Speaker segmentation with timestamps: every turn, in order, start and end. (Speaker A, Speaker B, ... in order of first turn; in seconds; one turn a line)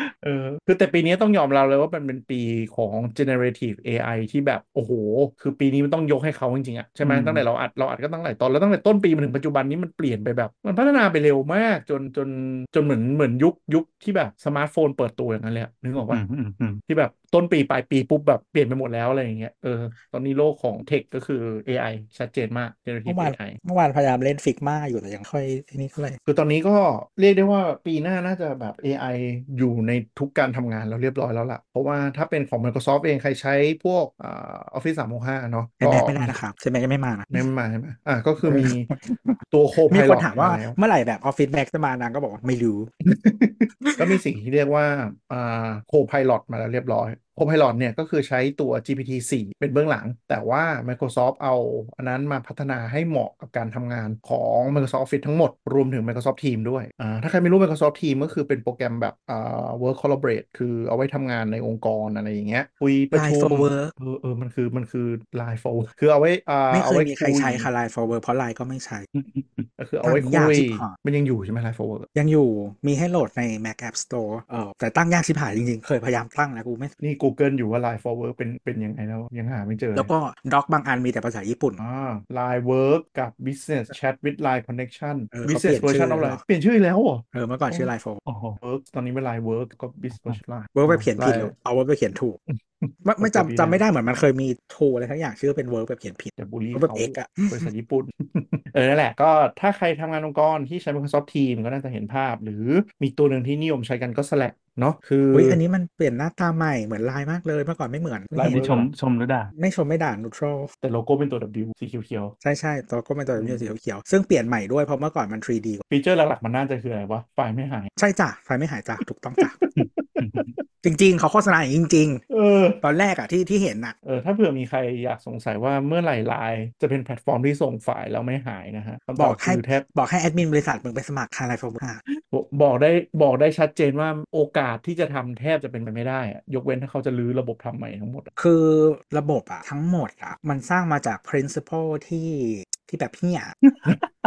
Speaker A: 0.2-16.2
Speaker B: 7.0-7.5
Speaker B: 16.1-16.8
Speaker A: 16.9-23.6
Speaker C: 23.1-26.2
Speaker A: 26.2-36.4
Speaker C: 35.8-37.3
Speaker A: 37.3-38.9
Speaker C: 38.4-43.0
Speaker A: 39.5-40.8
Speaker A: 43.0-67.7
Speaker C: 43.8-44.1
Speaker C: 63.1-63.9
Speaker C: 66.7-69.1
Speaker B: 69.1-69.7
Speaker A: 69.8-72.1
Speaker C: 70.0-70.9
Speaker C: 72.1-76.9
Speaker A: 77.0-80.1
Speaker C: 80.0-81.8
Speaker A: 81.8-87.9
Speaker C: 85.3-86.4
Speaker C: 87.3-88.2
Speaker B: 88.2-88.6
Speaker A: 88.6-91.5
Speaker C: 90.8-92.4
Speaker A: 92.5-93.8
Speaker C: 93.0-97.6
Speaker A: 96.4-105.6
Speaker C: 105.3-108.8
Speaker A: 108.3-108.9
Speaker B: 108.4-109.5
Speaker C: 109.5-110.7
Speaker A: 110.8-112.3
Speaker C: 112.4-115.8
Speaker A: 113.3-113.7
Speaker A: 115.9-117.9
Speaker C: 118.0-119.6
Speaker A: 119.4-120.5
Speaker B: 119.8-120.5
Speaker C: 120.8-122.2
Speaker A: 122.3-122.8
Speaker C: 122.8-123.9
Speaker A: 124.0-129.8
Speaker C: 129.2-132.0
Speaker A: 132.2-138.3
Speaker C: 138.4-143.6